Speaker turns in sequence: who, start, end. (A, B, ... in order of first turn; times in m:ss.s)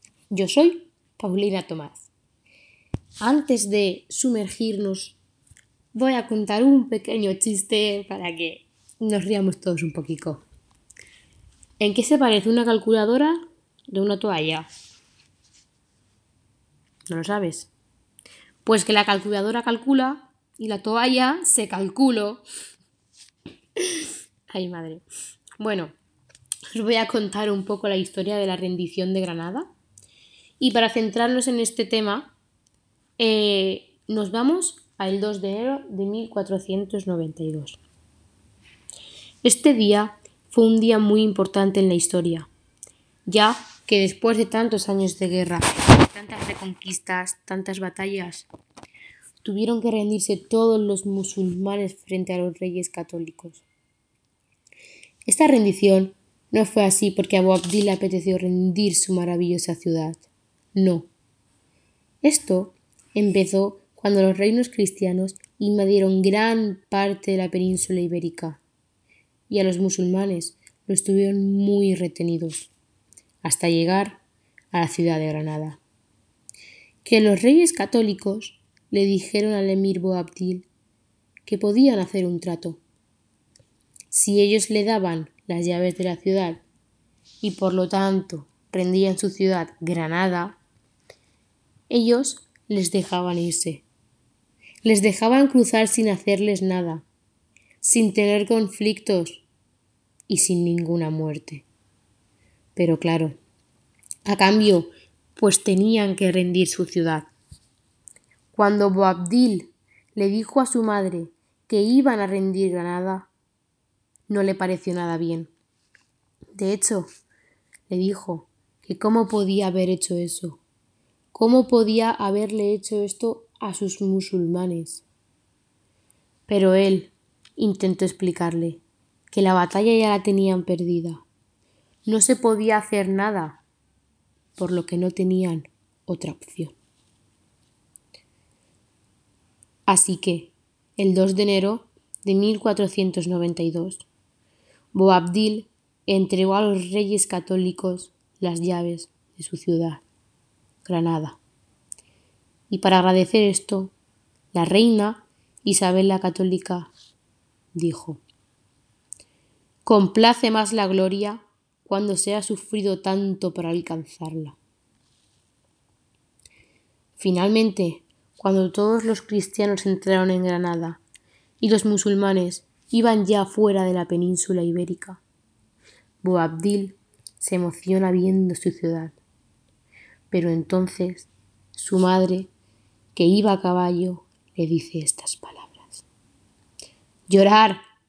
0:00.3-0:02.1 A
0:03.2-0:05.2 A
0:05.9-0:10.4 A
0:11.8-0:14.7 A
0:17.1-0:17.7 A
0:18.6-0:22.4 A
0:24.5-0:25.0 A
0:25.6-0:25.9 A
0:26.7-0:29.7 A
0:30.6-0:32.3 A
0:33.2-0:37.8 A
0:39.4-0:42.5 A
0:43.2-0:48.5 A
0:49.4-0:53.7 A
0:55.3-1:01.1 A
1:02.2-1:08.6 A
1:09.5-1:12.7 A
1:13.4-1:14.2 A
1:14.7-1:15.8 A
1:17.0-1:20.7 A
1:21.4-1:22.8 A
1:24.1-1:26.6 A
1:27.4-1:30.6 A
1:31.9-1:33.8 A
1:34.8-1:37.0 A
1:37.8-1:39.4 A
1:40.3-1:41.7 A
1:42.8-1:43.4 A
1:44.2-1:47.3 A
1:48.5-1:53.3 A
1:54.3-1:55.5 A
1:56.5-1:57.1 A
1:57.9-2:00.6 A
2:01.3-2:05.0 A
2:06.5-2:11.2 A
2:12.0-2:13.6 A
2:14.6-2:16.8 A
2:19.9-2:24.1 A
2:24.9-2:30.0 A
2:30.8-2:31.4 A
2:32.7-2:33.9 A
2:34.5-2:36.9 A
2:37.7-2:38.2 A
2:39.8-2:44.6 A
2:47.2-2:51.0 A
2:51.6-2:55.2 A
2:56.2-2:59.2 A
3:00.3-3:02.5 A
3:03.1-3:06.0 A
3:07.3-3:07.8 A